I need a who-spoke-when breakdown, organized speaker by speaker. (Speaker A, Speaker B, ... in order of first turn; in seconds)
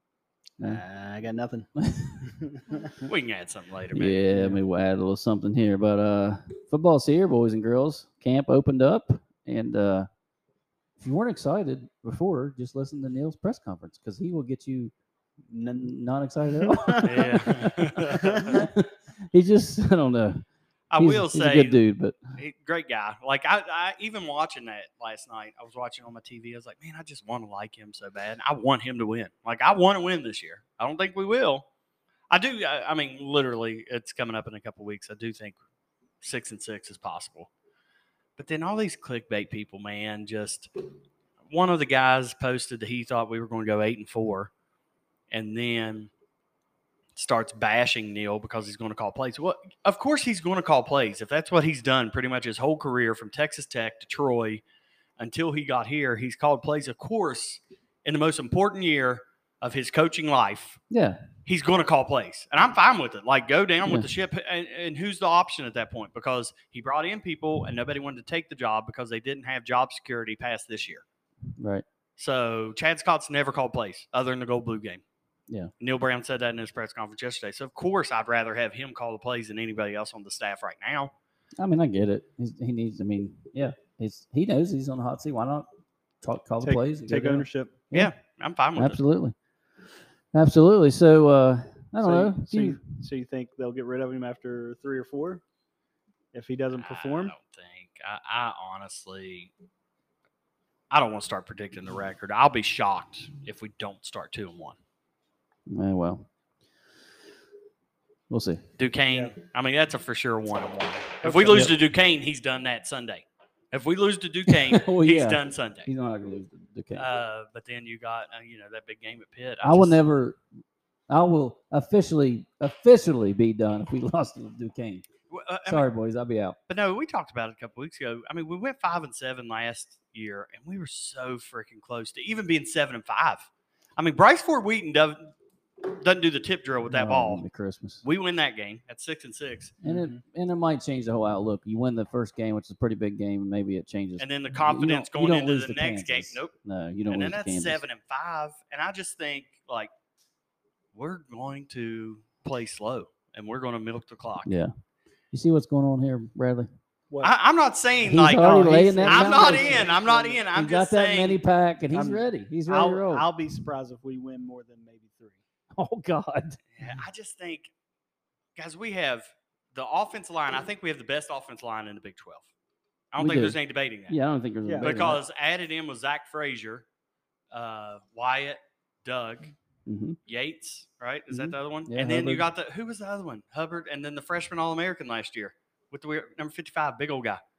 Speaker A: 0.6-1.7, 2.3-2.9, 4.3-4.6, 15.5-15.9, 16.6-17.5, 18.1-18.7, 86.6-87.8, 92.0-95.4, 96.3-97.3, 109.1-109.3, 139.8-140.2, 158.4-160.4, 161.9-165.4, 174.7-175.0
Speaker B: 1.8-2.3, 3.9-10.1, 11.0-14.9, 15.8-20.4, 21.0-22.2, 60.9-61.2, 71.6-71.8, 81.6-85.7, 86.2-88.1, 88.8-89.3, 90.3-92.8, 105.7-106.2, 108.3-108.6, 111.2-111.7, 114.5-117.0, 119.6-120.4, 121.1-125.0, 125.7-126.6, 136.9-138.0, 139.8-147.8, 154.4-154.7, 155.3-156.7, 158.1-159.9, 160.5-163.3, 165.8-167.0, 173.2-175.2, 179.8-180.2, 181.3-182.4
Speaker C: 3.0-4.2, 17.0-18.6, 20.9-21.8, 22.4-31.6, 32.3-35.6, 36.2-37.5, 38.4-40.7, 41.5-44.5, 45.3-46.1, 47.1-54.6, 55.2-60.8, 61.5-71.0, 72.2-75.0, 75.8-81.1, 87.9-89.0, 96.7-99.5, 100.9-104.8, 108.8-115.9, 117.0-120.0, 125.3-125.8, 126.7-137.4, 138.0-139.7, 144.2-146.5, 147.1-149.9, 150.9-154.5, 157.2-161.4, 166.8-167.7, 168.6-172.4, 173.1-174.2, 174.8-176.8, 177.5-179.5, 180.2-187.4